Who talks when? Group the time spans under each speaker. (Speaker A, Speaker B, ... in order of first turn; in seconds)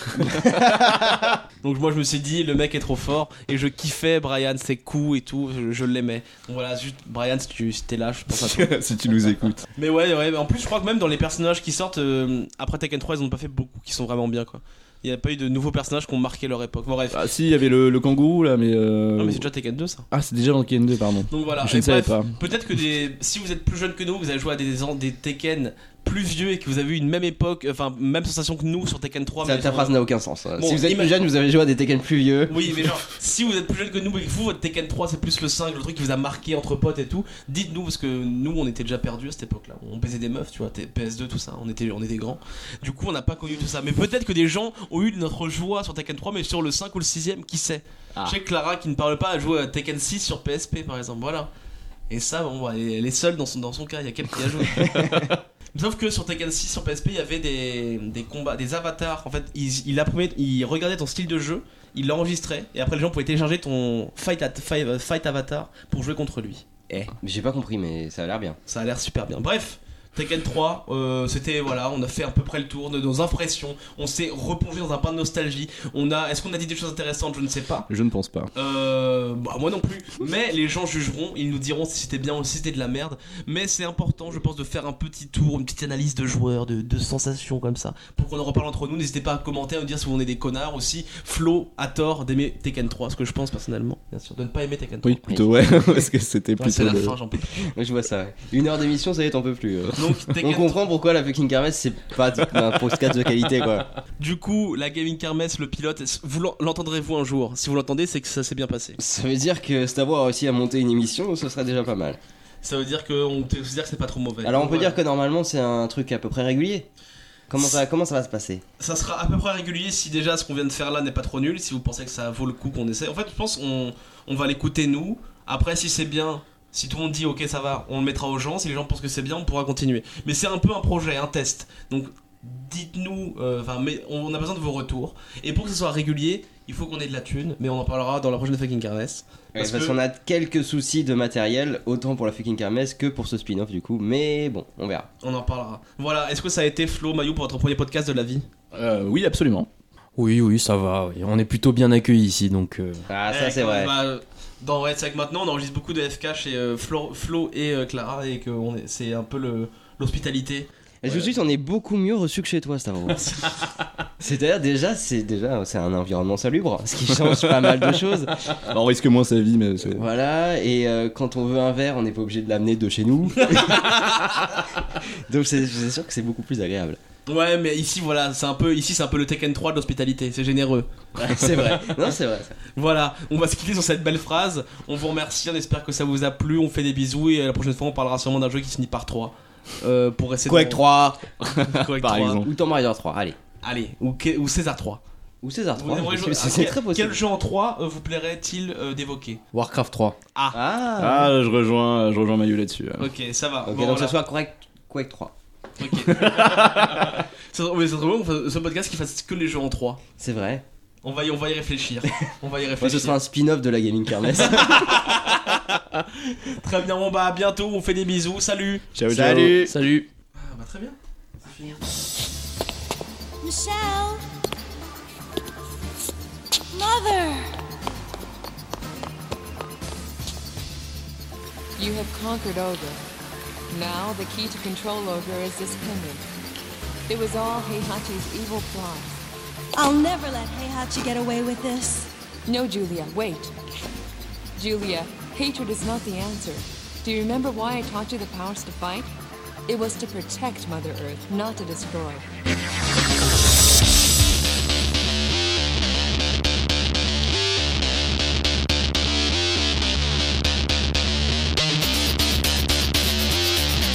Speaker A: 0.5-8.7, 9.8-17.3, 19.2-20.1, 21.3-30.0, 30.6-31.1, 32.5-51.5, 52.1-66.6, 68.7-77.9, 78.5-95.8, 96.6-97.7, 100.0-100.8, 104.2-109.0, 112.6-115.0, 118.8-140.0, 145.2-148.4, 153.3-160.7, 163.2-163.5, 173.4-174.6, 177.3-182.0, 182.7-192.4, 193.6-195.0, 195.8-199.4, 203.0-204.1, 205.8-210.0, 211.0-213.2, 214.4-218.8, 220.3-221.8
Speaker B: 8.3-9.6, 17.1-19.4, 20.1-22.4, 77.9-78.5, 95.0-97.2, 148.7-149.7, 167.3-167.8, 168.7-170.0, 191.4-192.5, 201.0-203.1, 218.9-219.7
Speaker C: 29.4-32.7, 66.9-68.6, 95.3-95.8, 97.6-103.9, 109.0-112.2, 114.4-116.9, 117.5-118.6, 139.5-145.1, 153.1-153.9, 161.0-163.3, 164.2-168.3, 169.9-177.0, 181.2-182.6, 190.4-190.8, 192.4-193.4, 195.4-197.2, 200.5-201.3, 203.6-205.3, 210.2-210.6, 212.8-214.8, 219.1-219.7
Speaker D: 150.2-153.0, 199.5-200.2, 219.5-220.1
Speaker E: 223.4-224.2, 226.7-227.6, 239.7-242.1
Speaker F: 231.8-233.0, 233.7-236.3, 237.1-239.2, 242.4-243.5, 244.6-249.1, 249.7-252.2